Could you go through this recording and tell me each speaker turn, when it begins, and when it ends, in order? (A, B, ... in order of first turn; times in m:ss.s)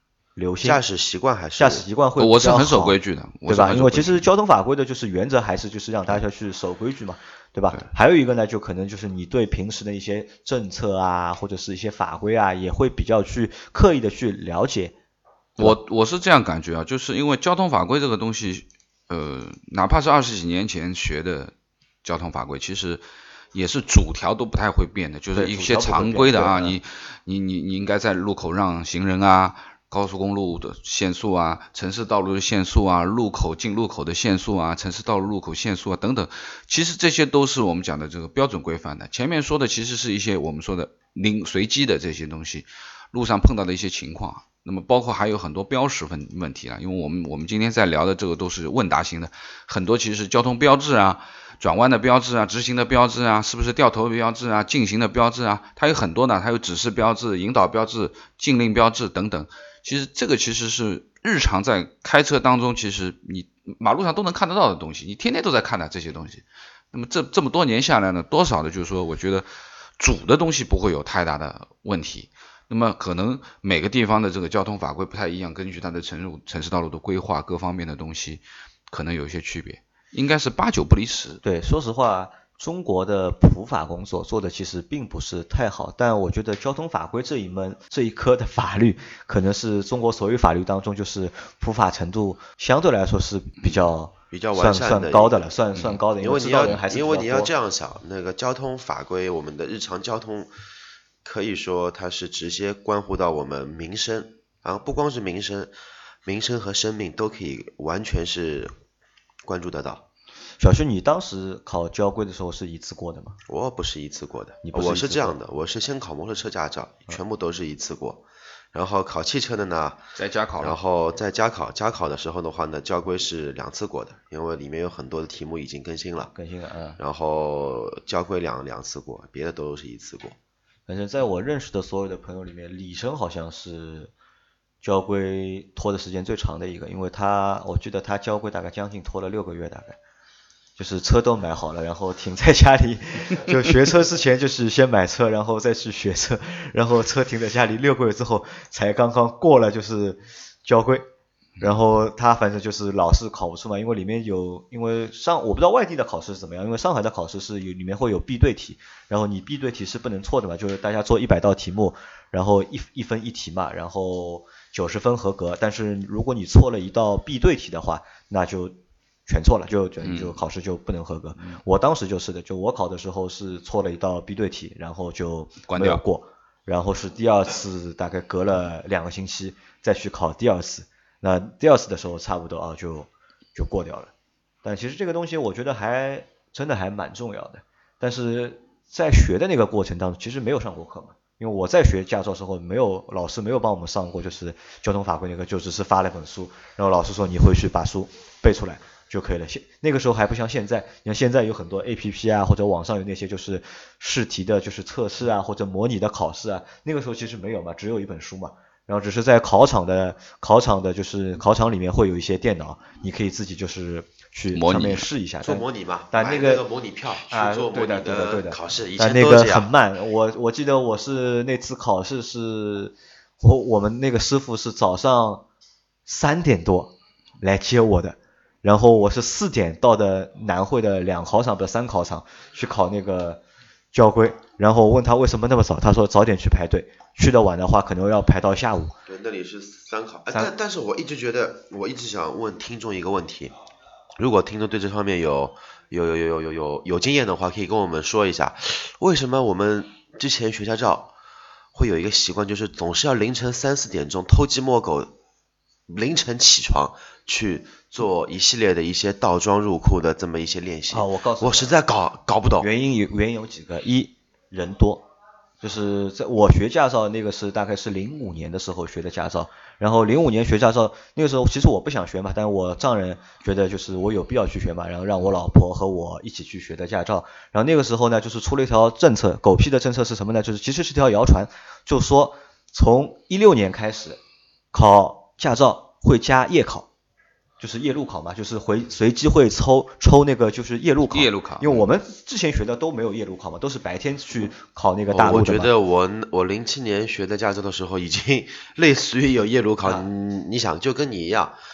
0:00.4-0:00.8 A
0:00.6-0:01.8 B
0:01.6-0:14.9 A
0:02.2-0:04.2 C
0:15.6-0:21.5 C
0:22.0-0:23.0 C
0:23.5-1:09.5 C
0:25.3-0:26.8 A
1:10.0-1:21.4 C
1:21.4-1:37.5 A
1:34.3-1:35.4 B
1:36.2-1:40.5 B
1:41.2-1:45.7 B
1:46.2-1:48.7 B
1:49.4-1:50.0 B
1:50.6-1:53.4 A
1:53.5-2:00.0 B
1:54.6-1:55.4 A
2:00.2-2:00.8 C
2:00.6-2:06.3 B
2:06.3-2:07.0 A
2:07.0-2:10.4 B
2:10.9-2:14.1 A
2:14.8-2:20.0 A
2:20.8-2:31.0 A
2:31.6-3:04.1 A
2:50.0-2:50.4 C
2:55.7-2:56.0 C
3:04.6-3:36.6 A
3:34.5-3:35.1 C
3:35.4-3:39.7 B
3:37.3-3:45.4 A
3:46.0-3:53.4 A
3:53.9-3:59.0 A
3:59.1-4:03.5 B
4:04.2-4:11.1 B
4:11.7-4:15.1 B
4:15.9-4:22.7 B
4:20.9-4:21.8 A
4:22.6-4:25.0 A
4:25.6-4:44.2 A
4:44.7-4:46.9 A
4:47.6-4:55.7 A
4:51.1-4:51.8 C
4:55.1-5:01.6 B